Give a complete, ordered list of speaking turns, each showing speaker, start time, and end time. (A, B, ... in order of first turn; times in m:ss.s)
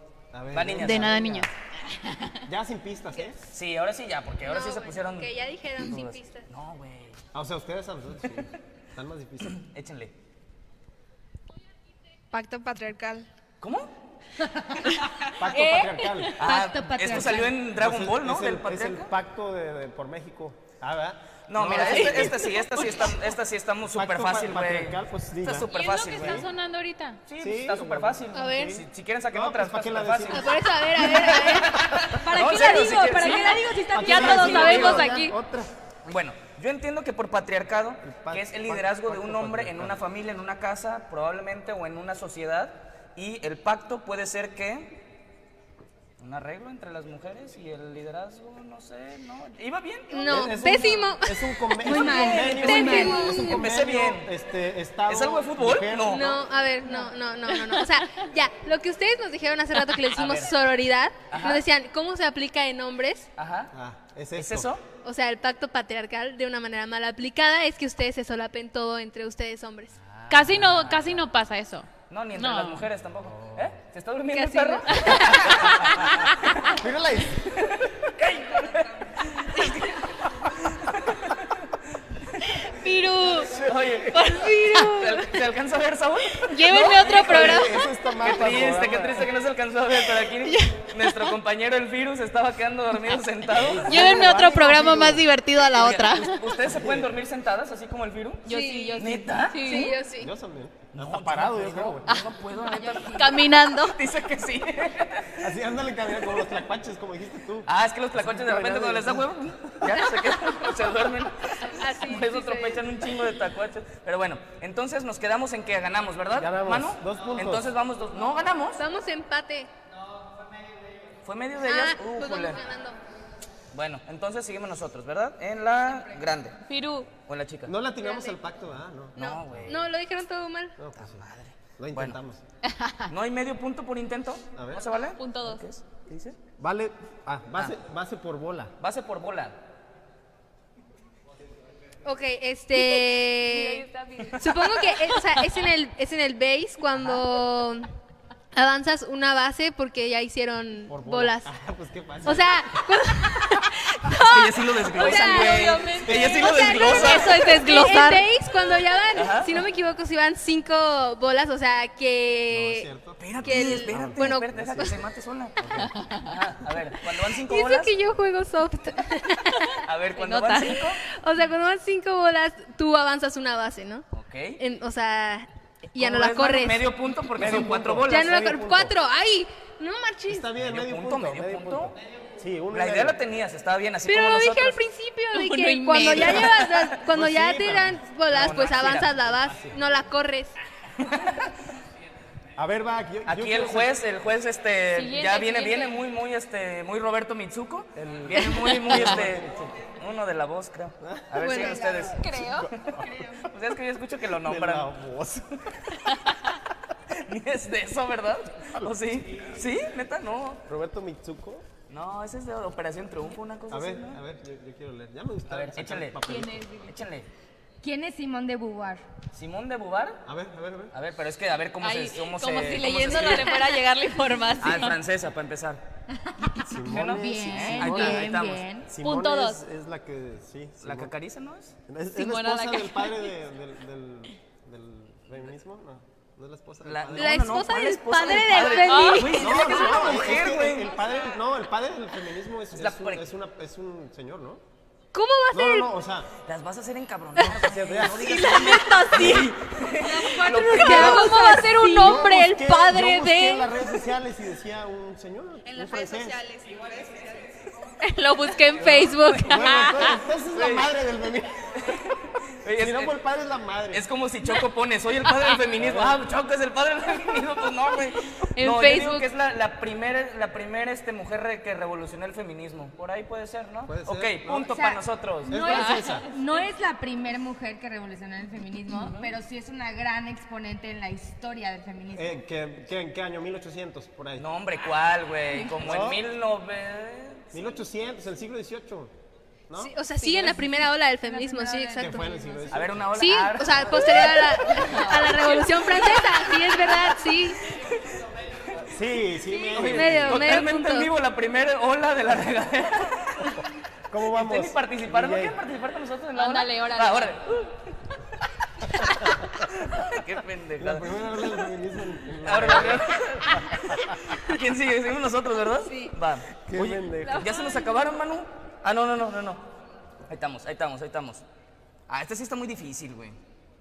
0:00.3-0:01.5 A
0:00.5-0:01.4 B
0:00.8-0:02.4 C
0:02.5-0:03.4 A
0:03.5-0:07.2 B
0:04.4-0:06.5 D
0:07.3-0:09.6 A
0:09.4-0:10.1 B
0:12.3-0:13.3 E
0:13.6-0:13.9 B
0:15.4-0:16.4 A
0:15.7-0:16.3 C
0:16.3-0:17.6 F
0:16.4-0:19.1 B
0:17.7-0:22.9 A
0:21.5-0:26.5 B
0:22.2-0:23.2 C
0:23.9-0:26.5 A
0:25.7-0:27.2 C
0:27.3-0:35.2 B
0:27.4-0:30.6 A
0:28.3-0:28.8 D
0:30.3-0:33.7 D
0:32.3-0:34.0 F
0:32.4-0:35.4 C
0:33.9-0:35.7 A
0:36.0-0:45.0 B
0:38.0-0:40.0 A
0:46.2-0:50.5 B
0:50.1-0:53.6 D
0:50.3-0:56.3 A
0:51.8-0:53.3 F
0:53.0-0:54.3 B
0:55.1-0:56.4 B
0:56.1-1:03.3 D
0:56.9-0:58.1 C
0:59.9-1:00.1 C
1:00.2-1:00.6 B
1:01.3-1:01.6 B
1:03.4-1:03.7 B
1:03.7-1:04.7 A
1:04.4-1:04.8 B
1:05.0-1:10.0 D
1:10.2-1:11.0 B
1:10.3-1:12.8 C
1:10.5-1:11.0 A
1:12.1-1:16.7 B
1:13.2-1:13.8 A
1:14.3-1:15.6 D
1:14.9-1:16.7 C
1:16.7-1:17.6 A
1:17.5-1:22.6 B
1:19.5-1:19.9 C
1:22.6-1:23.6 C
1:23.4-1:34.5 B
1:24.1-1:25.4 C
1:26.4-1:27.9 C
1:27.1-1:29.3 A
1:30.4-1:31.3 C
1:33.5-1:35.2 A
1:33.8-1:36.6 C
1:35.7-1:39.9 B
1:36.6-1:37.2 A
1:38.5-1:40.0 C
1:38.5-1:40.3 D
1:40.2-1:42.1 A
1:40.9-1:45.5 B
1:42.6-1:43.4 F
1:42.8-1:44.0 C
1:45.4-1:49.9 A
1:47.7-1:58.8 B
1:51.6-1:52.9 D
1:56.3-1:57.7 A
1:58.8-1:59.7 D
2:01.2-2:02.6 B
2:01.6-2:03.0 D
2:03.7-2:06.6 B
2:06.7-2:07.1 C
2:07.2-2:07.7 B
2:07.7-2:09.8 A
2:08.0-2:08.4 D
2:09.2-2:09.9 B
2:09.2-2:10.8 D
2:10.8-2:11.2 A
2:11.0-2:12.2 B
2:11.8-2:12.4 A
2:12.7-2:13.1 C
2:13.1-2:16.4 B
2:14.6-2:14.9 A
2:15.0-2:15.6 C
2:16.6-2:18.7 A
2:18.8-2:19.6 B
2:22.0-2:27.9 D
2:22.9-2:25.5 C
2:28.5-2:31.5 D
2:30.9-2:32.8 A
2:32.2-2:42.9 D
2:34.2-2:37.5 B
2:35.0-2:38.3 C
2:39.1-2:39.6 B
2:42.5-2:45.0 A
2:43.2-2:47.9 B
2:43.4-2:44.5 D
2:45.6-2:46.0 A
2:47.3-2:49.8 D
2:49.8-2:51.0 B
2:50.2-2:50.9 C
2:51.0-2:54.0 D
2:54.1-2:54.6 B
2:54.6-2:56.9 D
2:56.0-2:58.5 B
2:57.3-2:59.0 A
2:58.1-3:00.5 D
3:00.3-3:03.2 A
3:00.6-3:02.0 B
3:02.7-3:04.8 B
3:04.1-3:10.6 D
3:05.3-3:06.8 C
3:06.0-3:06.4 B
3:06.9-3:08.0 A
3:08.3-3:09.1 B
3:08.9-3:09.8 A
3:11.0-3:11.5 B
3:12.6-3:14.0 A
3:13.3-3:24.9 B
3:14.9-3:16.0 C
3:18.0-3:19.8 A
3:21.0-3:21.4 A
3:21.4-3:22.3 D
3:22.0-3:22.7 C
3:22.4-3:23.3 A
3:24.4-3:25.5 A
3:25.7-3:26.2 B
3:27.1-3:30.6 B
3:30.7-3:31.7 A
3:31.9-3:34.2 B
3:33.7-3:36.7 A
3:35.5-3:36.2 B
3:36.3-3:36.9 C
3:36.8-3:37.3 B
3:37.8-3:39.0 F
3:39.3-3:40.2 B
3:40.3-3:40.9 A
3:40.9-3:43.7 B
3:41.8-3:45.0 C
3:44.6-3:45.8 B
3:46.2-3:48.9 F
3:46.6-3:48.4 A
3:46.8-3:48.7 B
3:48.9-3:51.1 A
3:49.0-3:49.6 C
3:50.8-3:51.8 B
3:51.9-3:57.6 A
3:52.2-3:53.3 C
3:56.8-4:01.0 B
3:57.2-3:59.8 D
3:58.7-3:59.6 C
3:59.4-4:04.6 A
4:02.8-4:03.2 B
4:05.1-4:05.9 D
4:05.5-4:06.3 A
4:06.4-4:11.3 B
4:07.4-4:08.8 A
4:08.2-4:13.9 C
4:10.4-4:12.0 D
4:10.8-4:16.4 A
4:15.6-4:17.7 E
4:18.0-4:20.2 C
4:18.8-4:19.9 B
4:19.4-4:21.8 A
4:20.5-4:20.9 B
4:21.8-4:23.2 B
4:22.8-4:24.0 A
4:23.9-4:35.5 B
4:25.8-4:26.2 A
4:28.6-4:29.3 C
4:33.9-4:34.8 A
4:34.5-4:42.4 F
4:35.5-4:36.3 A
4:35.6-4:36.2 C
4:39.0-4:39.3 B
4:42.1-4:44.5 A
4:44.4-4:47.8 B
4:45.8-4:46.2 A
4:47.5-4:49.1 A
4:49.7-4:50.0 A
4:49.8-4:52.3 D
4:50.2-4:52.9 F
4:52.0-4:53.1 A
4:52.7-4:54.6 B
4:53.1-4:57.6 D
4:54.7-4:56.3 C
4:57.7-4:58.1 B
4:58.8-5:00.6 A
4:59.5-5:01.1 D
4:59.7-5:03.6 B
5:04.1-5:05.6 A
5:04.3-5:07.9 B
5:06.4-5:07.4 C
5:09.0-5:11.6 B
5:10.8-5:13.6 A
5:12.4-5:19.6 B
5:16.7-5:17.5 A
5:17.3-5:17.8 C
5:20.3-5:21.4 B
5:22.1-5:23.4 B